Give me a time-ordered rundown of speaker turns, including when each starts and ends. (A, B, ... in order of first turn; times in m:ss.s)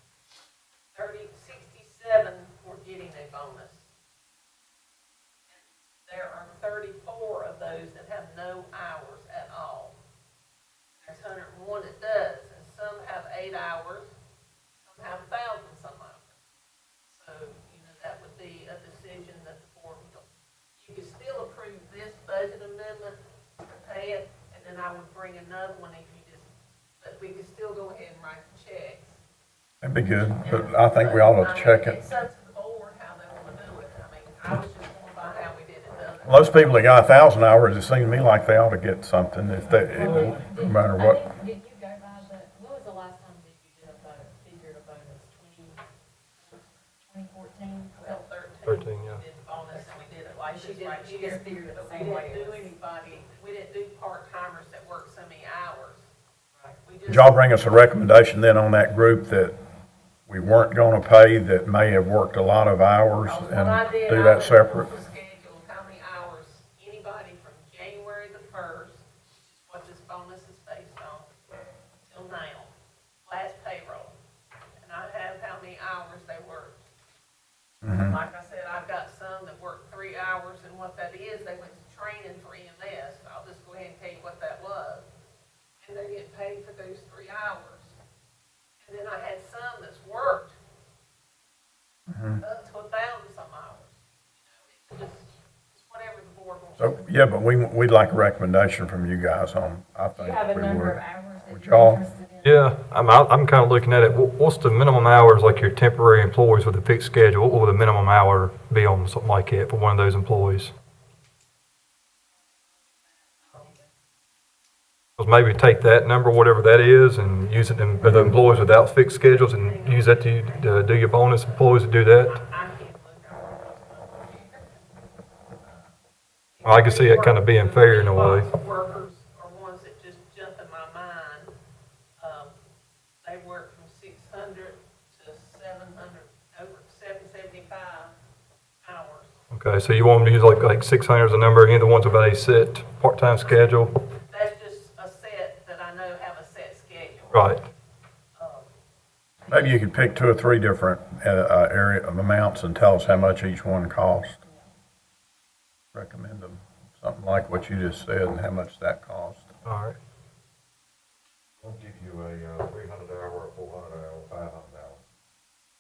0:00.9-0:03.9 A
0:05.5-0:10.0 A
0:11.0-0:14.2 A
0:14.8-0:16.4 A
0:17.1-0:20.2 A
0:20.8-0:29.2 A
0:29.8-0:32.0 B
0:30.4-0:37.2 A
0:36.2-0:41.2 B
0:39.9-0:45.8 C
0:46.4-0:48.2 C
0:48.0-0:56.1 A
0:48.7-0:49.2 D
0:50.5-0:52.8 C
0:56.8-0:57.4 A
0:57.1-0:59.6 B
1:00.3-1:04.9 B
1:03.2-1:11.4 A
1:12.0-1:12.7 A
1:13.3-1:14.2 A
1:14.8-1:16.9 A
1:17.8-1:18.2 B
1:17.9-1:25.1 A
1:25.8-1:28.0 A
1:28.8-1:30.6 A
1:32.1-1:32.4 B
1:32.4-1:37.2 A
1:36.8-1:42.0 B
1:40.2-1:42.7 C
1:42.4-1:50.7 D
1:55.2-2:02.4 D
1:58.0-1:58.3 B
1:59.4-2:00.9 A
2:02.2-2:04.8 A
2:05.6-2:05.9 A
2:06.5-2:11.6 A
2:06.6-2:08.5 D
2:12.2-2:12.6 A
2:13.2-2:18.2 A
2:18.8-2:19.4 A
2:19.5-2:23.9 D
2:24.3-2:27.6 A
2:27.3-2:27.6 D
2:28.4-2:28.7 A
2:29.4-2:29.9 A
2:29.5-2:34.4 B
2:35.9-2:39.5 B
2:39.6-2:40.0 D
2:41.6-2:45.0 E